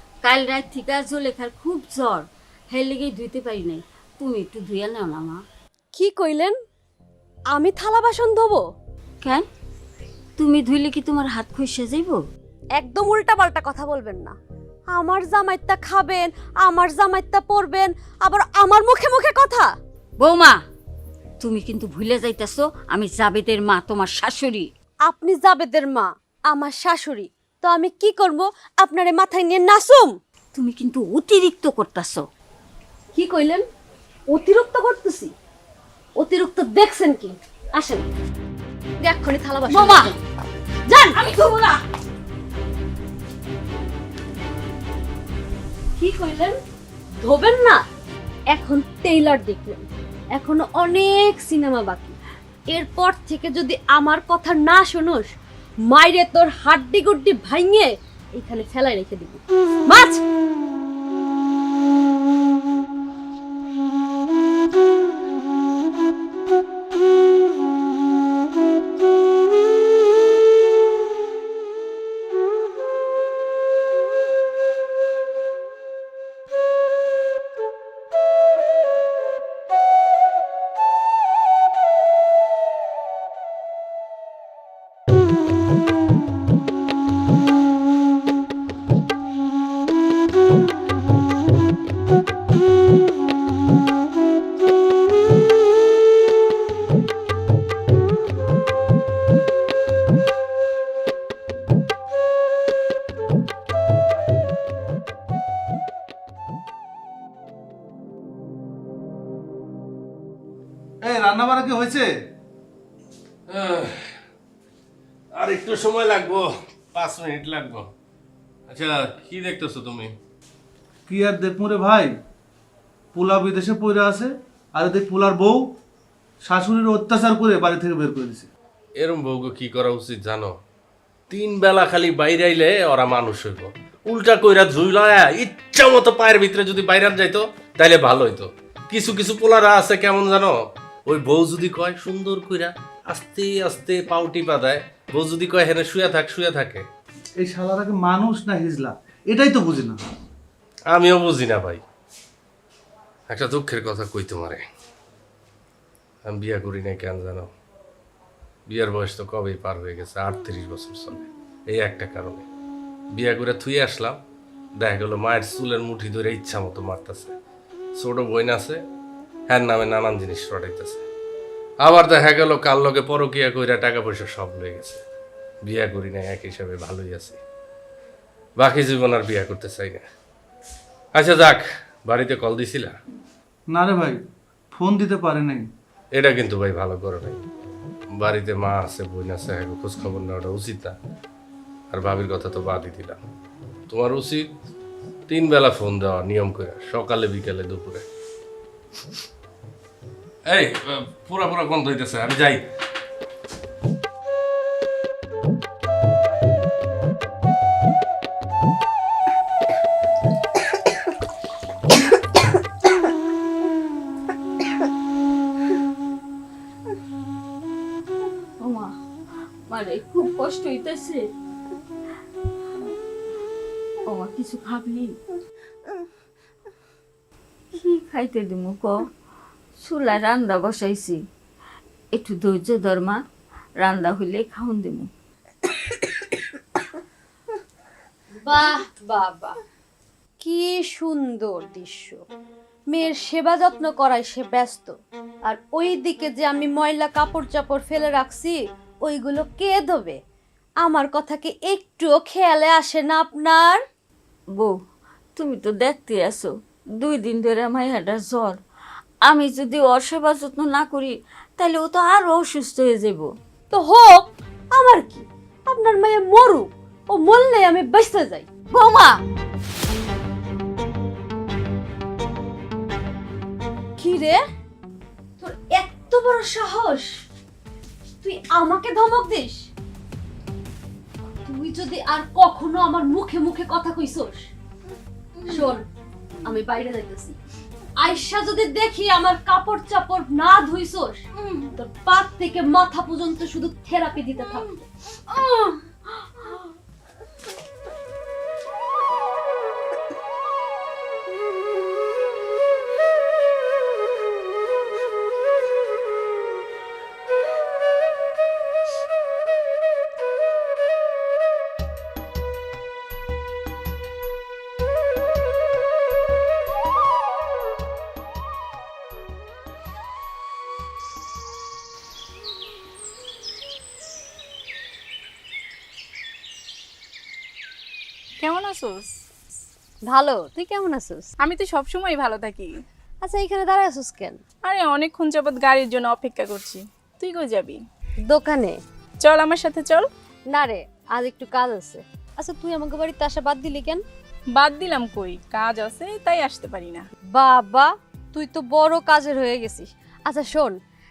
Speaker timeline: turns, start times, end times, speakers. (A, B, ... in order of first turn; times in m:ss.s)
0:00.2-0:05.4 A
0:06.0-0:06.6 B
0:07.5-0:08.6 B
0:10.4-0:12.2 A
0:12.8-0:14.4 B
0:14.9-0:19.7 B
0:20.2-0:20.6 A
0:21.4-0:24.7 A
0:25.1-0:30.1 B
0:30.5-0:32.2 A
0:33.2-0:33.6 B
0:34.3-0:35.3 B
0:36.2-0:38.1 B
0:39.0-0:40.2 B
0:39.7-0:40.1 A
0:40.9-0:41.2 B
0:41.2-0:41.8 A
0:46.0-0:46.6 B
0:47.2-0:47.8 B
0:48.5-0:52.2 B
0:52.7-0:55.3 B
0:55.9-1:00.2 B
1:51.0-1:52.1 C
1:53.5-1:54.1 D
1:55.3-1:57.9 D
1:58.7-2:00.1 D
2:01.1-2:02.1 C
2:03.1-2:05.6 C
2:06.4-2:08.5 C
2:09.0-2:10.6 D
2:11.3-2:26.9 D
2:27.4-2:30.0 C
2:30.9-2:31.8 D
2:33.3-2:34.7 D
2:36.2-2:37.5 D
2:38.7-2:42.5 D
2:43.1-2:44.2 D
2:44.8-2:47.3 D
2:48.0-2:48.8 D
2:49.5-2:51.0 D
2:51.8-2:55.0 D
2:55.7-2:57.4 D
2:58.6-3:00.1 D
3:01.2-3:03.0 D
3:03.7-3:04.2 C
3:04.7-3:05.7 C
3:06.1-3:07.4 D
3:08.2-3:11.0 D
3:11.9-3:13.2 D
3:13.9-3:14.5 D
3:15.3-3:18.0 D
3:20.5-3:22.6 D
3:38.6-3:38.9 A
3:39.7-3:41.3 A
3:44.1-3:45.2 A
3:47.8-3:49.0 A
3:49.8-3:51.2 A
3:52.1-3:53.2 A
3:53.8-3:55.1 A
3:58.4-3:59.6 B
4:00.4-4:02.2 B
4:02.9-4:10.2 B
4:10.8-4:13.8 B
4:15.4-4:18.6 A
4:19.2-4:23.3 A
4:23.7-4:28.5 B
4:28.7-4:29.2 A
4:34.0-4:34.4 B
4:35.4-4:37.2 B
4:38.2-4:39.7 B
4:41.4-4:44.5 B
4:45.4-4:45.7 A
4:45.5-4:45.8 B
4:46.4-4:47.4 B
4:48.0-4:51.2 B
4:51.4-4:51.7 A
4:51.8-4:54.8 B
4:55.3-4:55.8 A
5:28.4-5:29.1 E
5:30.1-5:31.3 B
5:31.4-5:32.8 E
5:33.2-5:34.4 B
5:34.6-5:37.8 E
5:38.3-5:38.8 B
5:39.2-5:40.1 E
5:40.5-5:44.0 B
5:44.6-5:47.1 E
5:47.3-5:50.8 B